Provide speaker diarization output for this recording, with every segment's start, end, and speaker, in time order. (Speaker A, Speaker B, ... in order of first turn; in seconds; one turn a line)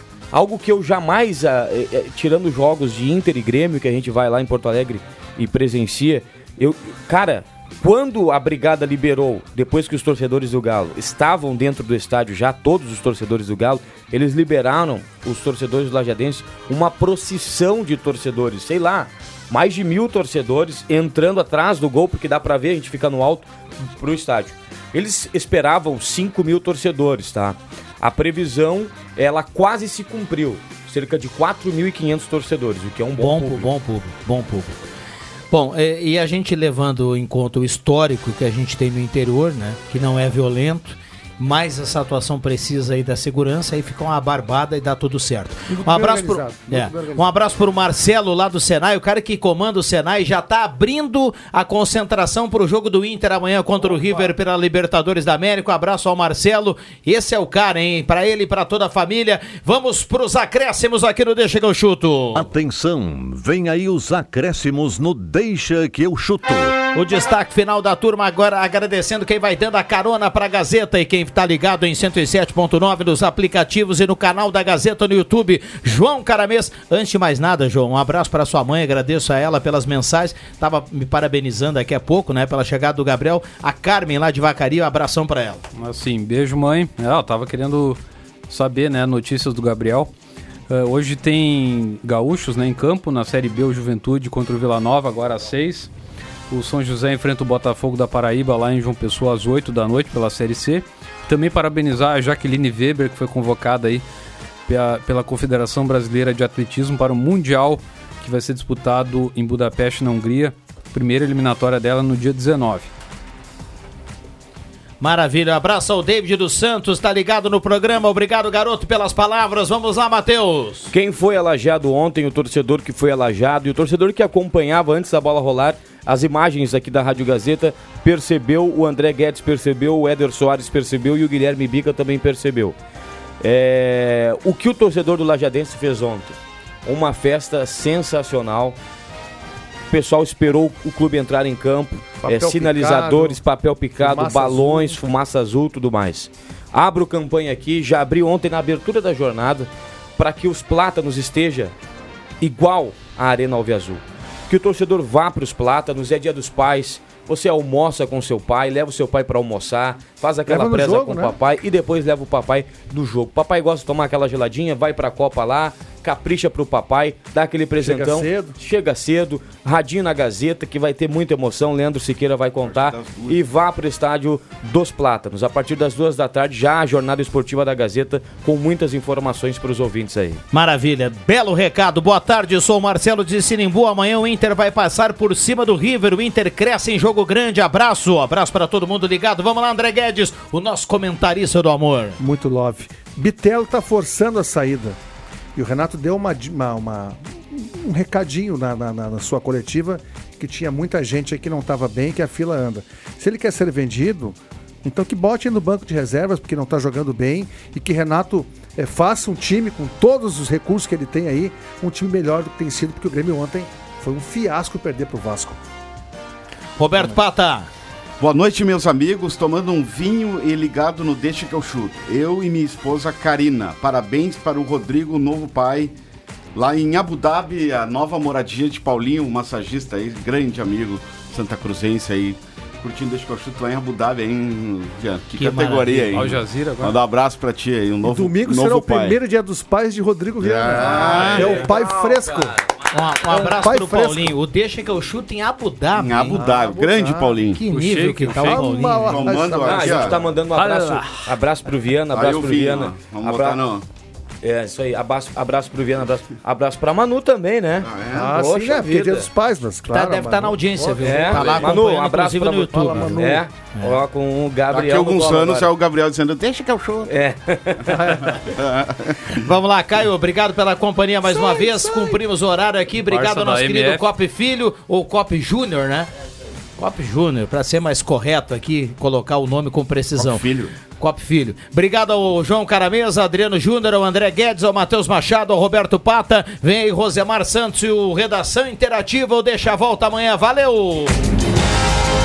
Speaker A: 0.3-33.7
Speaker B: 33.2-34.8
Speaker B: 35.5-62.5
Speaker C: 45.7-47.4
Speaker D: 62.4-66.7
Speaker B: 67.0-85.6
Speaker E: 85.8-90.1
Speaker E: 90.7-95.9
Speaker E: 96.5-104.0
Speaker E: 104.7-112.9
Speaker B: 115.0-120.9
Speaker A: 120.9-132.8
Speaker A: 133.4-138.8
Speaker A: 139.9-151.7
Speaker C: 142.2-143.4
Speaker C: 144.0-145.0
Speaker A: 152.4-180.4
Speaker C: 160.5-161.4
Speaker C: 167.8-168.6
Speaker F: 172.6-173.4
Speaker B: 180.5-192.2
Speaker C: 192.2-195.0
Speaker C: 195.6-215.6
Speaker B: 216.8-217.7
Speaker F: 218.2-225.9
Speaker F: 226.6-239.2
Speaker B: 235.3-236.3
Speaker E: 236.1-237.0
Speaker C: 238.0-242.6
Speaker F: 240.4-241.7
Speaker A: 241.4-242.2
Speaker B: 242.9-246.4
Speaker C: 243.3-244.3
Speaker F: 245.9-247.6
Speaker C: 246.3-247.4
Speaker B: 247.4-249.3
Speaker E: 247.7-248.8
Speaker C: 248.3-250.2
Speaker F: 249.1-250.2
Speaker A: 249.5-253.6
Speaker E: 250.5-251.3
Speaker F: 252.1-253.8
Speaker A: 254.4-259.3
Speaker F: 257.8-258.3
Speaker C: 258.1-261.8
Speaker B: 259.9-263.2
Speaker A: 261.0-265.7
Speaker C: 262.4-263.5
Speaker F: 264.7-267.1
Speaker A: 267.1-268.1
Speaker C: 267.9-268.4
Speaker F: 268.3-269.4
Speaker B: 269.4-276.1
Speaker C: 271.3-272.2
Speaker E: 273.1-274.1
Speaker B: 276.8-291.2
Speaker F: 280.2-280.7